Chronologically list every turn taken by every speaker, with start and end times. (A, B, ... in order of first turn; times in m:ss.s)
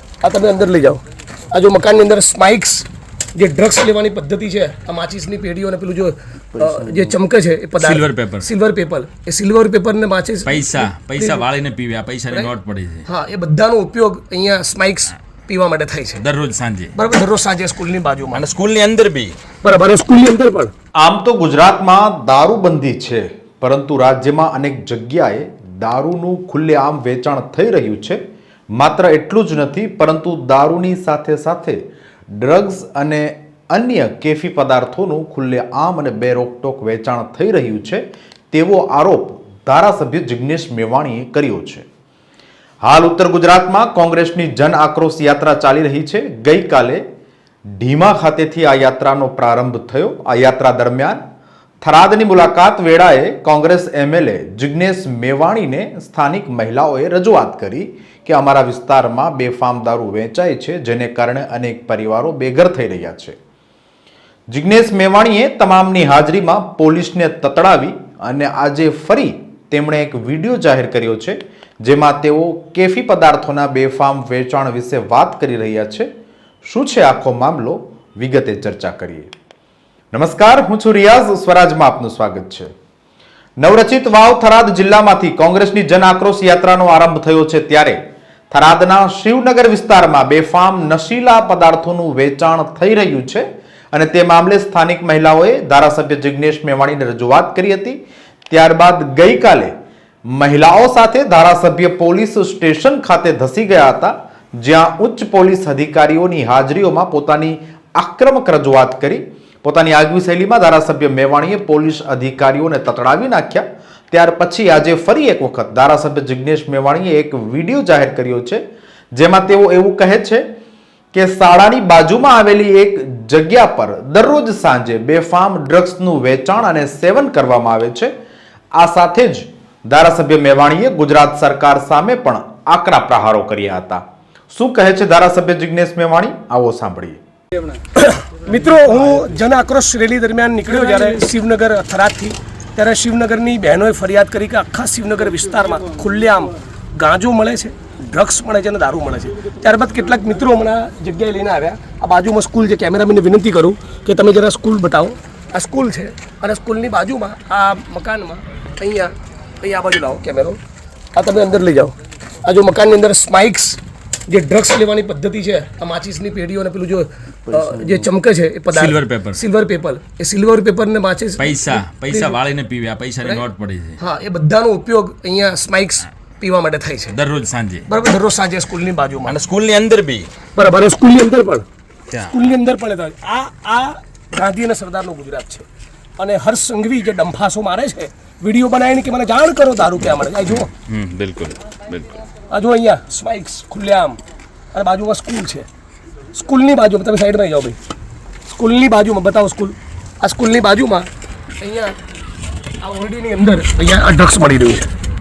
0:00.2-0:11.4 A
0:07.8-0:08.5 B
0:10.4-0:13.0 B
0:13.0-0:16.2 A
0:16.2-0:16.9 B
0:16.9-0:18.4 A
0:18.3-0:19.4 B
0:19.6-0:20.7 A
0:21.0-0:28.2 C
0:28.8-0:31.8 C
0:32.3-0:41.8 C
0:42.8-0:47.0 C
0:47.8-0:51.2 C
0:51.8-1:03.4 C
1:04.5-1:16.1 C
1:16.6-1:19.3 C
1:20.1-1:22.7 C
1:23.6-1:39.7 C
1:40.3-1:58.6 C
1:59.1-2:00.4 C
2:01.1-2:08.1 C
2:08.8-2:17.2 C
2:17.9-2:40.6 A
2:41.2-2:52.4 A
2:48.7-2:49.4 B
2:51.4-2:54.0 B
2:54.0-2:57.2 A
2:57.1-2:57.9 B
2:57.9-2:59.4 A
2:59.2-3:00.3 B
3:00.5-3:01.6 A
3:02.1-3:02.3 B
3:02.3-3:05.7 A
3:06.2-3:10.7 A
3:10.4-3:12.2 B
3:12.5-3:14.2 A
3:14.7-3:15.7 A
3:16.3-3:17.8 A
3:18.5-3:21.1 A
3:21.6-3:22.0 A
3:22.8-3:24.9 A